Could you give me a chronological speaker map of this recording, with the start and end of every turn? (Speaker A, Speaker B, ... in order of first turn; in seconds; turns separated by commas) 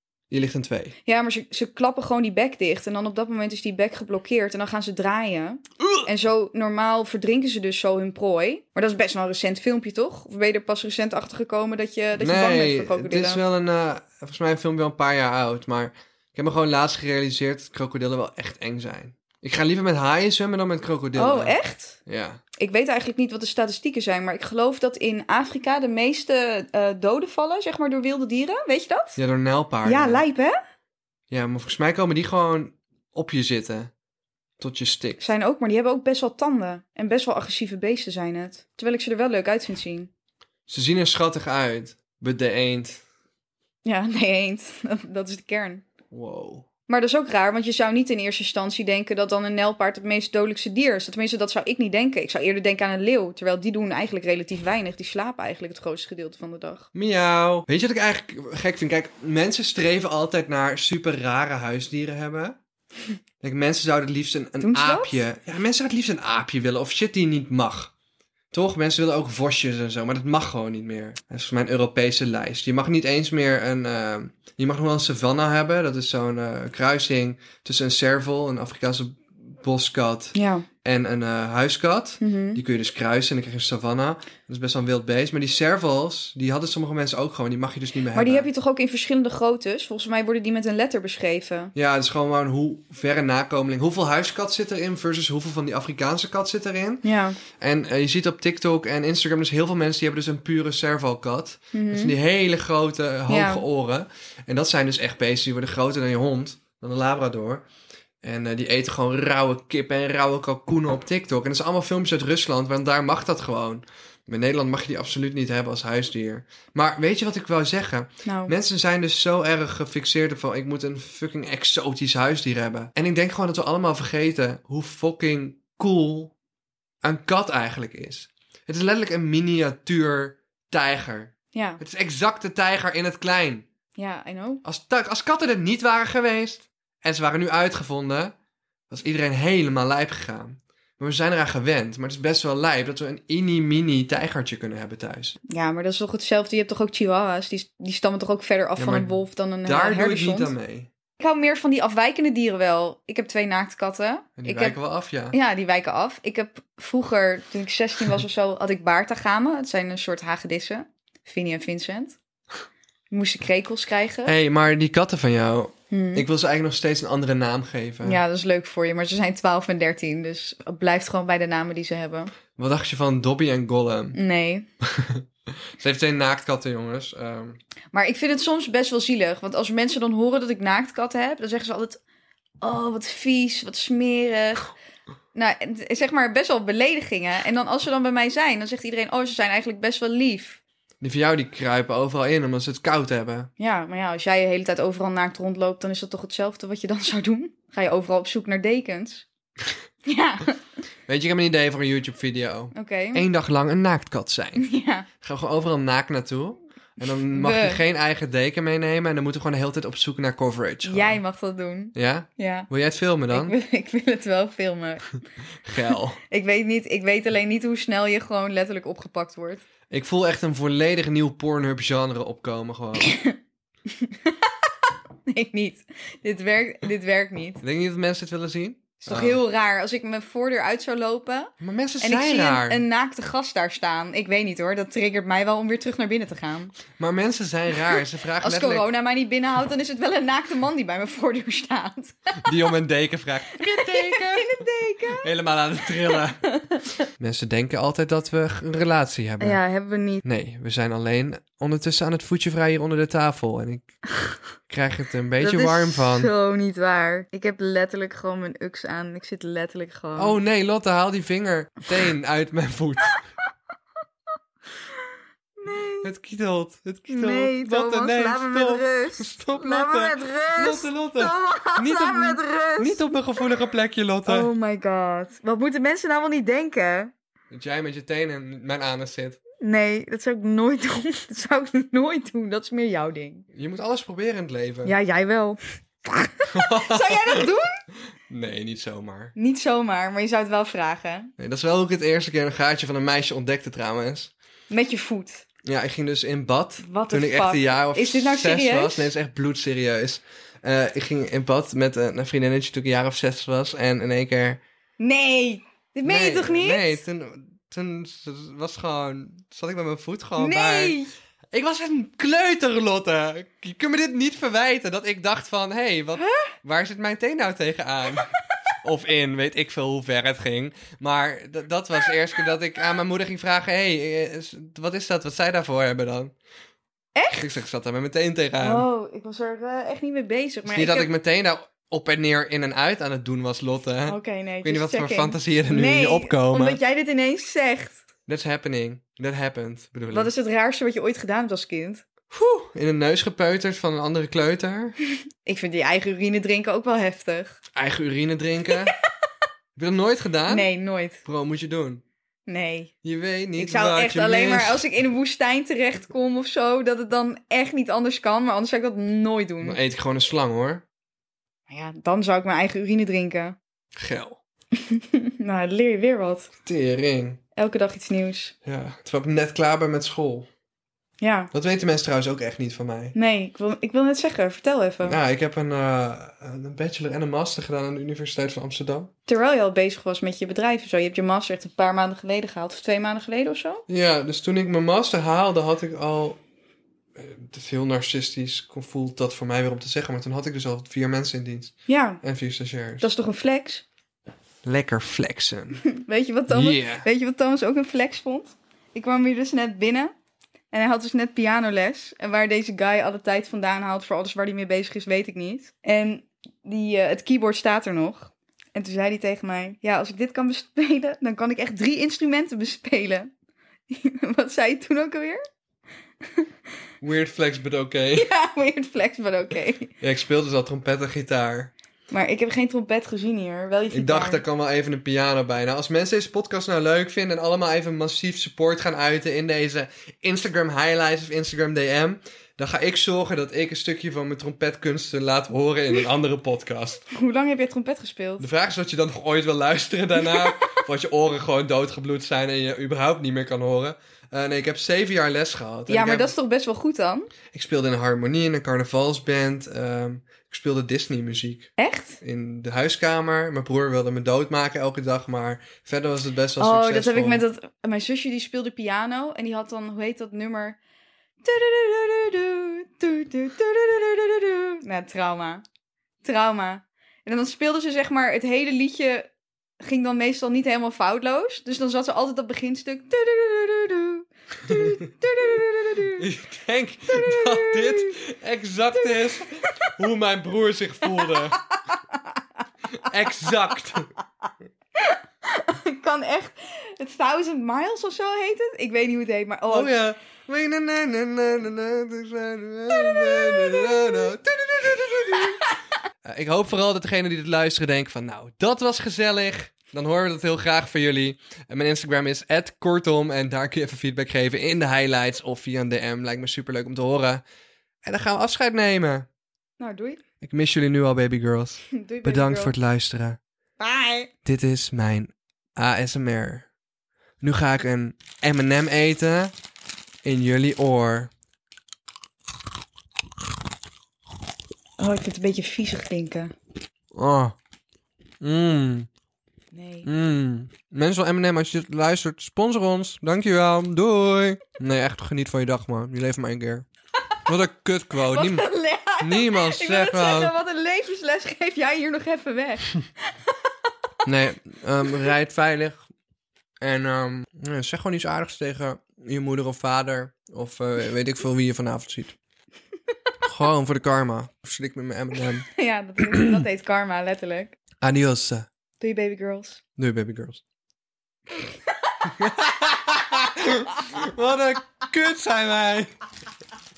Speaker A: 0.3-0.9, Speaker B: 1.1-13.4, Speaker A: 12.2-22.4, Speaker B: 21.1-22.0, Speaker B: 22.6-29.2, Speaker A: 29.1-30.2, Speaker B: 29.8-30.6, Speaker A: 31.3-33.9, Speaker A: 34.6-35.3, Speaker B: 35.2-40.1, Speaker A: 40.7-43.0, Speaker B: 43.8-45.8, Speaker A: 46.1-46.6, Speaker B: 46.9-56.9, Speaker A: 56.9-62.6, Speaker A: 63.4-67.9, Speaker B: 64.6-65.2, Speaker A: 68.5-88.5, Speaker B: 80.3-80.7, Speaker B: 82.2-82.6, Speaker B: 88.1-91.7, Speaker A: 91.7-107.6, Speaker B: 97.0-97.4, Speaker B: 101.7-102.1, Speaker B: 103.3-103.6, Speaker A: 108.2-126.3, Speaker B: 118.2-118.5, Speaker A: 127.0-133.7, Speaker B: 131.5-131.8, Speaker B: 134.0-134.6, Speaker A: 134.6-138.3, Speaker A: 138.9-145.3, Speaker B: 145.5-150.5, Speaker A: 148.8-150.9, Speaker B: 151.2-154.8, Speaker A: 154.4-155.3, Speaker B: 155.3-162.2, Speaker B: 163.1-164.3, Speaker A: 164.2-168.2, Speaker B: 165.9-166.2, Speaker B: 168.0-172.3, Speaker A: 172.6-174.2, Speaker B: 174.1-174.7, Speaker A: 174.8-175.2, Speaker A: 175.8-177.6, Speaker B: 177.9-182.0, Speaker B: 182.6-184.7, Speaker B: 185.3-190.6, Speaker A: 191.0-193.5, Speaker B: 193.6-199.2, Speaker B: 200.0-200.6, Speaker A: 201.1-204.7, Speaker B: 202.7-203.2, Speaker B: 204.6-205.1, Speaker A: 205.2-211.2, Speaker B: 207.2-207.8, Speaker B: 210.8-212.7, Speaker A: 211.9-213.6, Speaker B: 213.3-215.2, Speaker A: 215.6-216.2, Speaker B: 216.3-219.6, Speaker A: 219.9-223.1, Speaker B: 223.0-223.4, Speaker B: 223.9-224.7, Speaker B: 225.2-227.6, Speaker A: 227.6-229.4, Speaker B: 229.0-236.7, Speaker A: 231.6-232.8, Speaker A: 237.0-238.9, Speaker B: 238.4-242.5, Speaker A: 242.4-244.6, Speaker B: 243.6-245.2, Speaker A: 245.1-246.4, Speaker B: 246.4-246.8, Speaker A: 247.2-249.6, Speaker B: 249.4-250.2, Speaker A: 250.2-253.9, Speaker A: 254.7-256.3, Speaker B: 255.4-260.4, Speaker A: 260.1-263.2, Speaker B: 265.6-266.1, Speaker A: 266.0-274.5, Speaker B: 267.1-273.1, Speaker B: 274.2-277.1, Speaker A: 277.5-279.4, Speaker B: 279.6-283.4, Speaker A: 283.5-284.9, Speaker B: 284.8-287.8, Speaker A: 286.5-287.5, Speaker A: 288.3-289.3, Speaker B: 289.4-291.3, Speaker A: 291.4-294.3, Speaker B: 294.7-295.4, Speaker A: 295.6-304.6, Speaker B: 296.8-299.1, Speaker B: 305.0-307.0, Speaker A: 306.0-311.0, Speaker B: 310.4-311.1, Speaker A: 311.5-326.3, Speaker B: 316.1-316.5, Speaker B: 327.1-327.4, Speaker A: 327.3-328.9, Speaker B: 328.6-331.1, Speaker A: 330.6-336.8, Speaker B: 334.1-338.0, Speaker A: 338.3-340.3, Speaker B: 340.1-342.0, Speaker A: 342.3-344.9, Speaker B: 345.4-347.6, Speaker A: 347.7-348.9, Speaker A: 349.8-350.7, Speaker B: 350.5-351.2, Speaker A: 351.2-352.0, Speaker B: 352.5-352.9, Speaker A: 353.0-354.8, Speaker B: 353.6-359.8, Speaker A: 359.6-360.8, Speaker B: 361.7-363.6, Speaker A: 363.9-364.4, Speaker B: 364.8-366.5, Speaker A: 366.6-367.4, Speaker B: 367.6-368.5, Speaker A: 368.6-370.5, Speaker B: 371.2-371.5, Speaker A: 371.5-373.1, Speaker B: 373.1-375.2, Speaker A: 375.0-379.1, Speaker B: 379.3-383.8, Speaker A: 383.9-386.4, Speaker A: 387.1-393.1, Speaker B: 391.9-392.2, Speaker B: 393.0-393.8, Speaker A: 394.6-395.8, Speaker B: 395.8-400.1, Speaker A: 396.5-397.1, Speaker B: 400.7-413.3, Speaker B: 413.9-415.4, Speaker A: 417.0-418.3, Speaker B: 418.1-419.9, Speaker A: 420.0-421.7, Speaker B: 422.1-424.4, Speaker A: 423.9-437.1, Speaker B: 437.1-438.5, Speaker A: 438.4-446.3, Speaker B: 440.2-440.7, Speaker B: 445.9-447.3, Speaker A: 447.5-457.4, Speaker B: 451.8-452.2, Speaker B: 456.6-460.8, Speaker B: 461.4-465.6, Speaker B: 466.2-469.3, Speaker B: 469.8-476.3, Speaker A: 474.7-474.9, Speaker A: 476.2-481.6, Speaker B: 477.1-478.2, Speaker B: 481.6-482.2, Speaker A: 483.0-484.1, Speaker B: 485.0-489.9, Speaker A: 489.7-495.7, Speaker B: 492.9-494.3, Speaker A: 496.2-507.4, Speaker A: 508.0-509.3, Speaker B: 509.8-510.2, Speaker A: 510.4-513.4, Speaker B: 511.9-512.7, Speaker B: 513.8-514.3, Speaker A: 514.4-516.7, Speaker A: 517.4-519.5, Speaker A: 520.2-521.3, Speaker B: 525.0-526.5, Speaker A: 527.1-527.5, Speaker A: 528.4-529.1, Speaker B: 529.7-530.1, Speaker A: 530.0-536.9, Speaker A: 537.5-538.6, Speaker B: 538.3-543.0, Speaker A: 539.2-540.5, Speaker A: 544.2-546.0, Speaker A: 546.8-552.3, Speaker A: 553.4-555.6, Speaker B: 555.6-557.8, Speaker A: 556.2-556.6, Speaker A: 558.0-558.7, Speaker B: 559.0-559.8, Speaker A: 560.0-560.6, Speaker B: 561.6-562.6, Speaker A: 562.2-566.1